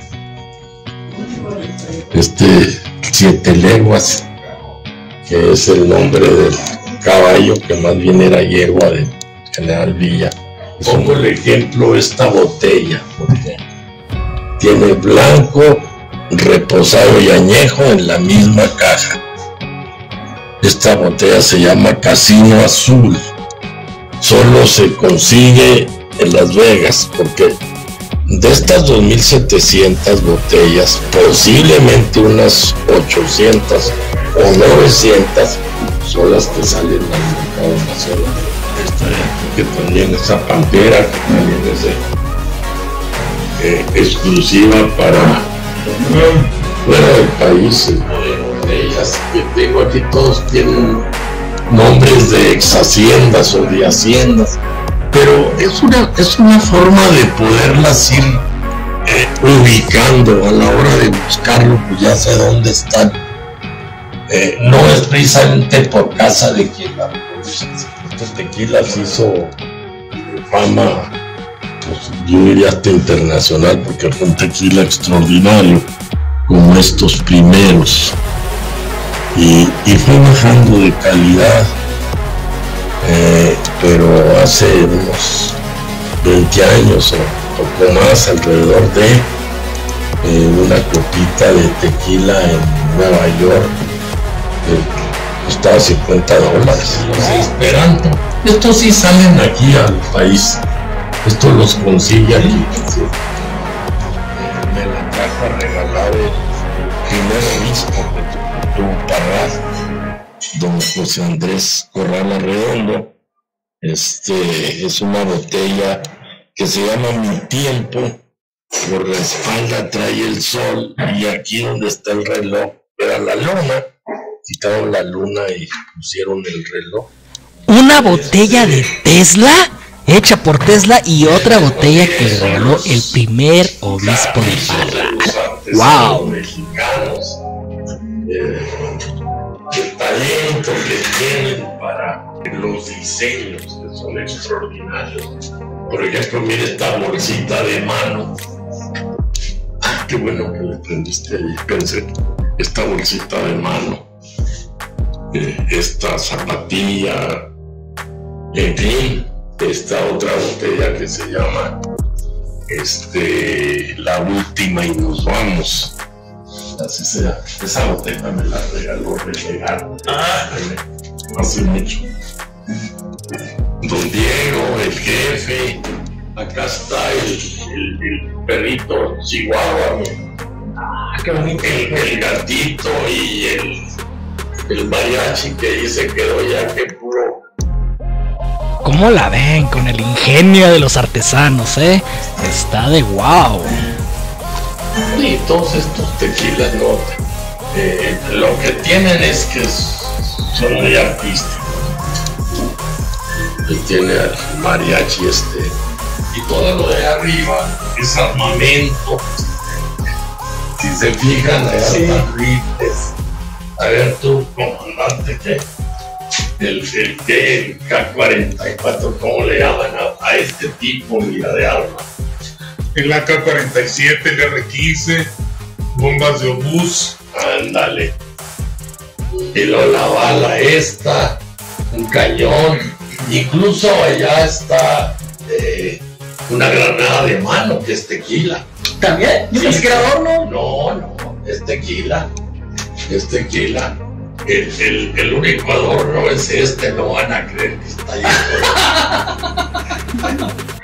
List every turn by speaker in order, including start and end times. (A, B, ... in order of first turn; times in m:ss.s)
0:01.2-0:04.3 A
0:05.2-0:13.6 A
0:14.6-0:19.2 A
0:20.6-0:23.3 A
0:24.2-0:27.6 A
0:28.2-0:42.0 A
0:43.6-0:51.1 A
0:51.7-0:54.6 A
0:55.1-0:58.4 A
0:59.0-1:03.2 A
1:04.3-1:09.6 A
1:10.1-1:11.1 A
1:11.8-1:15.9 A
1:16.5-1:18.2 A
1:19.3-1:21.7 A
1:23.0-1:25.6 A
1:26.2-1:29.3 A
1:30.2-1:33.8 A
1:34.6-1:34.9 A
1:35.4-1:40.6 A
1:36.7-1:37.5 B
1:41.2-1:43.3 A
1:44.3-1:49.6 A
1:50.5-1:53.1 A
1:53.8-1:56.0 A
1:56.5-1:58.2 A
1:58.8-2:03.8 A
2:04.4-2:07.1 A
2:07.7-2:16.3 B
2:07.7-2:09.0 A
2:11.2-2:13.2 A
2:13.8-2:17.4 A
2:18.2-2:19.0 A
2:19.7-2:25.3 A
2:25.9-2:28.4 A
2:29.8-2:34.1 A
2:35.3-2:37.4 A
2:38.5-2:41.8 A
2:42.7-2:45.9 A
2:46.7-2:52.1 A
2:53.8-2:55.8 A
2:56.3-3:00.2 A
3:01.1-3:03.9 A
3:04.7-3:07.4 A
3:08.8-3:13.7 B
3:15.1-3:21.9 A
3:23.6-3:25.8 A
3:26.3-3:29.2 A
3:30.8-3:33.1 A
3:31.8-3:32.2 B
3:33.8-3:35.7 A
3:36.6-3:42.1 A
3:43.0-3:45.2 C
3:46.0-3:47.1 C
3:47.1-3:48.2 A
3:49.5-3:58.7 A
3:59.0-4:00.5 B
3:59.5-4:02.3 A
4:03.0-4:08.9 A
4:08.7-4:09.4 B